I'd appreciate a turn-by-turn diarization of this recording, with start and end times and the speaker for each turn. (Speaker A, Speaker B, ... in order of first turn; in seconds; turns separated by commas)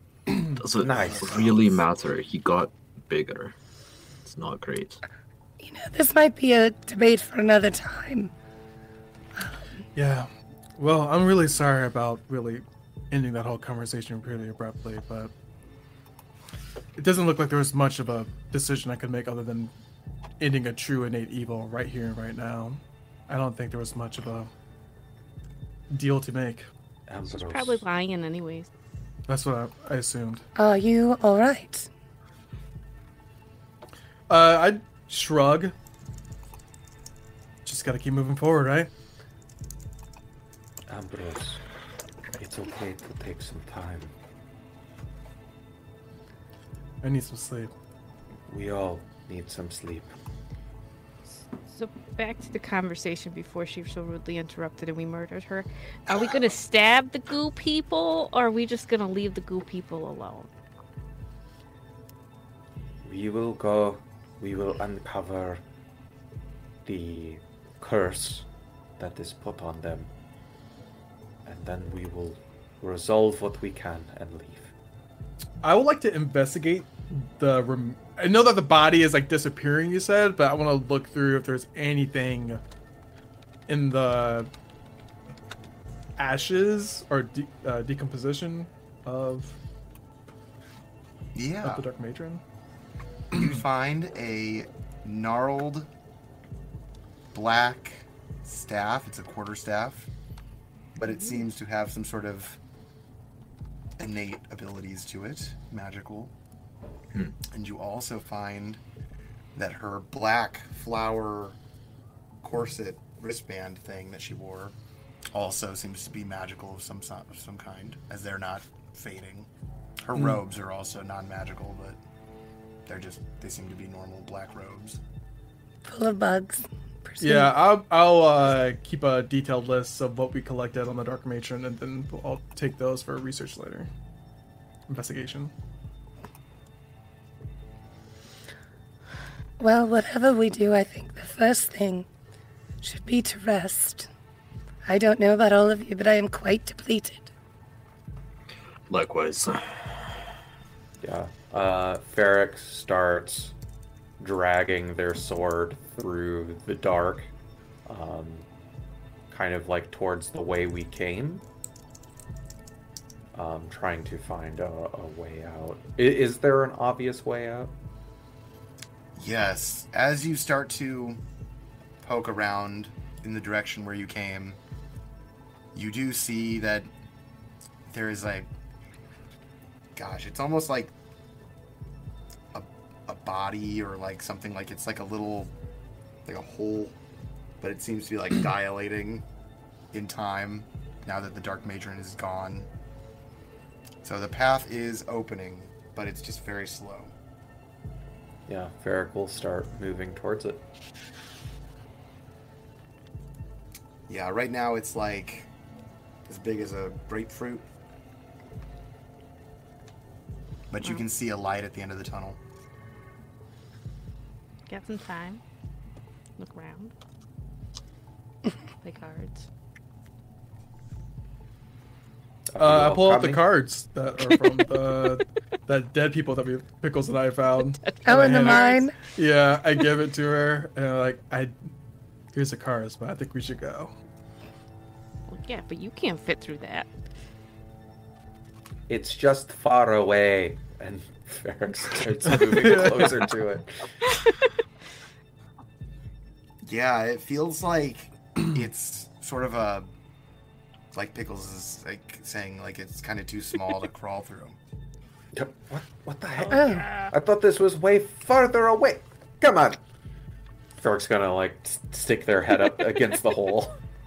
Speaker A: 0.3-0.6, Speaker B: 0.6-3.5, Speaker C: 0.8-1.8, Speaker B: 4.2-5.0, Speaker D: 5.6-8.3, Speaker A: 9.9-15.3, Speaker A: 17.0-19.7, Speaker A: 20.4-24.5, Speaker A: 25.9-26.6, Speaker C: 27.1-27.8, Speaker E: 27.3-28.7, Speaker A: 29.3-30.4, Speaker D: 30.6-31.9, Speaker A: 34.3-35.7, Speaker A: 37.6-38.9, Speaker C: 40.9-41.6, Speaker C: 42.3-44.1, Speaker A: 47.0-47.7, Speaker C: 48.5-50.1, Speaker E: 51.6-60.5, Speaker C: 63.0-65.6, Speaker C: 66.8-68.4, Speaker C: 69.0-70.1, Speaker C: 71.5-74.7, Speaker A: 75.6-82.6, Speaker A: 83.7-84.5, Speaker A: 86.2-89.6, Speaker F: 91.3-91.9, Speaker A: 91.6-92.4, Speaker F: 93.3-95.9, Speaker F: 97.3-100.1, Speaker F: 100.9-102.6, Speaker F: 104.0-106.3, Speaker F: 107.5-108.8, Speaker F: 109.5-111.6, Speaker F: 112.4-114.8, Speaker F: 115.3-119.5, Speaker F: 120.0-122.0, Speaker F: 122.8-125.0, Speaker D: 125.8-127.5, Speaker A: 127.2-133.9, Speaker A: 134.9-135.5, Speaker D: 139.6-142.1, Speaker D: 142.8-144.1, Speaker D: 144.8-147.3, Speaker B: 148.9-150.1, Speaker C: 151.0-153.5, Speaker C: 154.2-157.3, Speaker C: 157.8-158.5, Speaker C: 159.3-161.4, Speaker C: 163.3-167.7, Speaker F: 169.2-171.2, Speaker F: 172.0-174.6, Speaker F: 175.7-176.9, Speaker F: 177.8-178.5, Speaker F: 179.9-180.9, Speaker F: 182.5-185.5, Speaker F: 186.2-186.9, Speaker F: 187.6-189.2, Speaker F: 189.9-192.7, Speaker F: 194.0-197.1, Speaker C: 198.5-200.6, Speaker F: 204.1-205.5, Speaker F: 206.2-207.7, Speaker F: 210.7-212.4, Speaker E: 214.7-215.4, Speaker E: 216.4-216.9, Speaker E: 218.8-219.5, Speaker C: 222.5-223.5, Speaker A: 222.6-231.5, Speaker E: 227.8-228.9, Speaker D: 228.0-228.9, Speaker A: 232.3-233.9, Speaker E: 235.3-236.9, Speaker C: 238.9-243.9, Speaker A: 242.5-243.1, Speaker F: 246.6-249.9, Speaker F: 250.9-254.6, Speaker C: 255.3-259.8, Speaker E: 256.4-257.1, Speaker D: 256.5-256.9, Speaker C: 260.8-263.7